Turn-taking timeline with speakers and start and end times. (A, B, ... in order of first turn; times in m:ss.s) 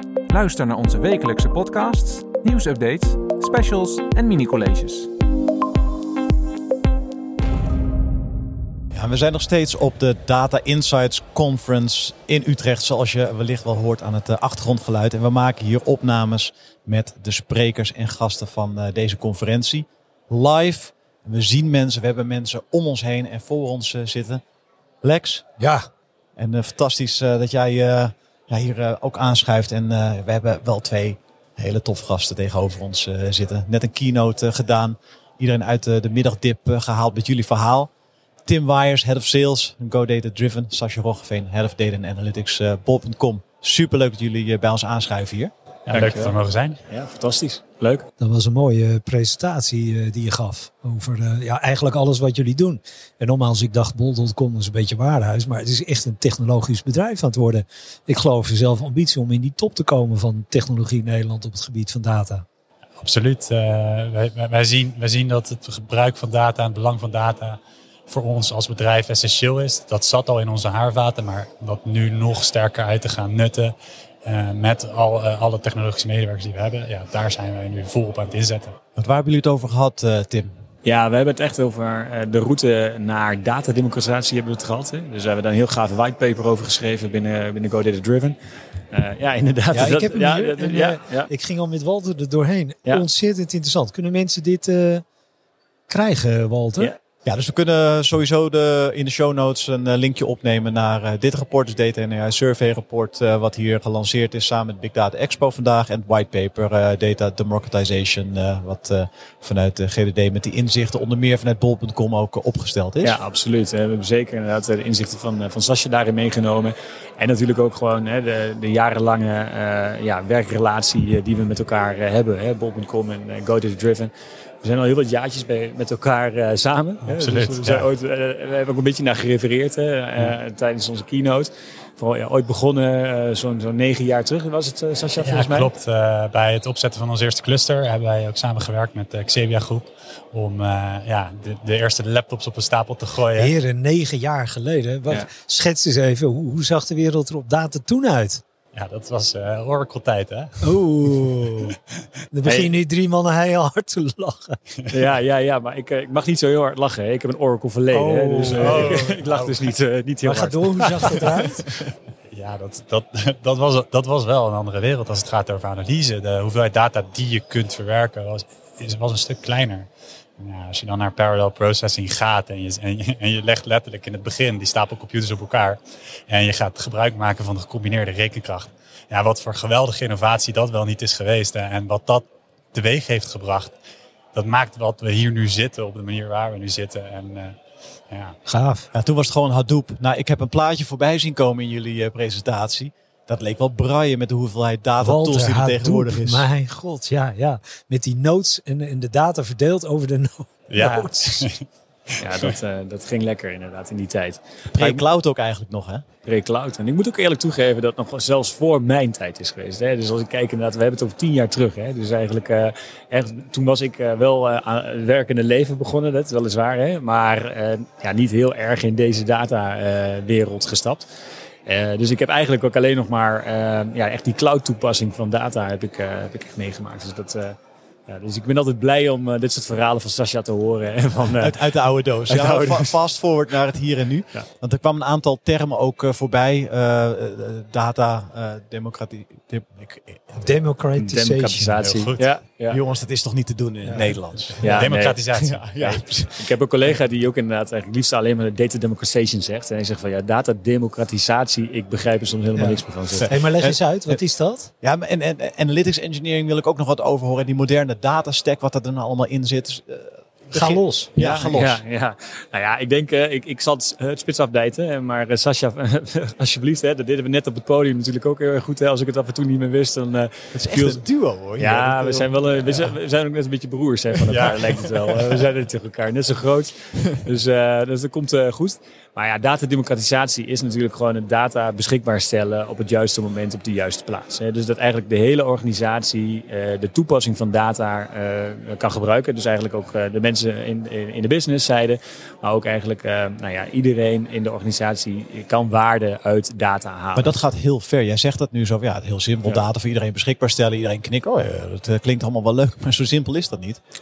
0:00.3-0:05.1 A
0:08.9-0:24.4 B
0:25.0-0:25.5 B
0:25.6-0:25.9 C
0:26.4-0:37.9 B
0:38.4-0:45.5 B
0:45.9-0:46.8 D
0:45.9-0:46.4 E
0:46.9-0:48.0 E
0:48.2-1:02.4 C
1:03.0-1:18.8 D
1:19.0-1:20.5 B
1:20.8-1:28.4 E
1:28.9-1:31.3 E
1:29.7-1:35.0 C
1:35.9-1:36.9 C
1:37.2-1:53.2 B
1:53.0-2:15.7 E
2:07.0-2:07.9 D
2:15.2-2:23.5 D
2:23.4-2:28.4 C
2:28.7-2:31.3 D
2:30.6-2:31.8 C
2:32.3-2:34.6 C
2:32.4-2:32.8 E
2:34.9-2:41.8 E
2:37.9-2:39.1 C
2:38.5-2:39.6 D
2:40.2-2:41.7 C
2:42.3-3:03.8 D
3:04.3-3:07.6 D
3:08.1-3:08.4 D
3:08.5-3:08.9 C
3:08.9-3:16.5 B
3:15.0-3:21.5 C
3:20.7-3:21.6 D
3:22.2-3:25.0 E
3:24.7-3:26.0 B
3:26.2-3:41.0 E
3:41.7-3:47.5 E
3:48.1-3:51.7 E
3:51.4-4:00.6 B
3:52.3-3:52.9 E
4:00.4-4:01.8 C
4:01.0-4:02.8 E
4:01.8-4:02.4 D
4:02.7-4:06.4 B
4:04.6-4:13.3 E
4:04.6-4:06.0 D
4:12.6-4:14.7 C
4:13.1-4:14.2 B
4:14.8-4:21.8 B
4:20.5-4:21.1 C
4:21.2-4:31.0 E
4:30.5-4:32.9 B
4:31.6-4:57.4 E
4:57.1-5:03.8 B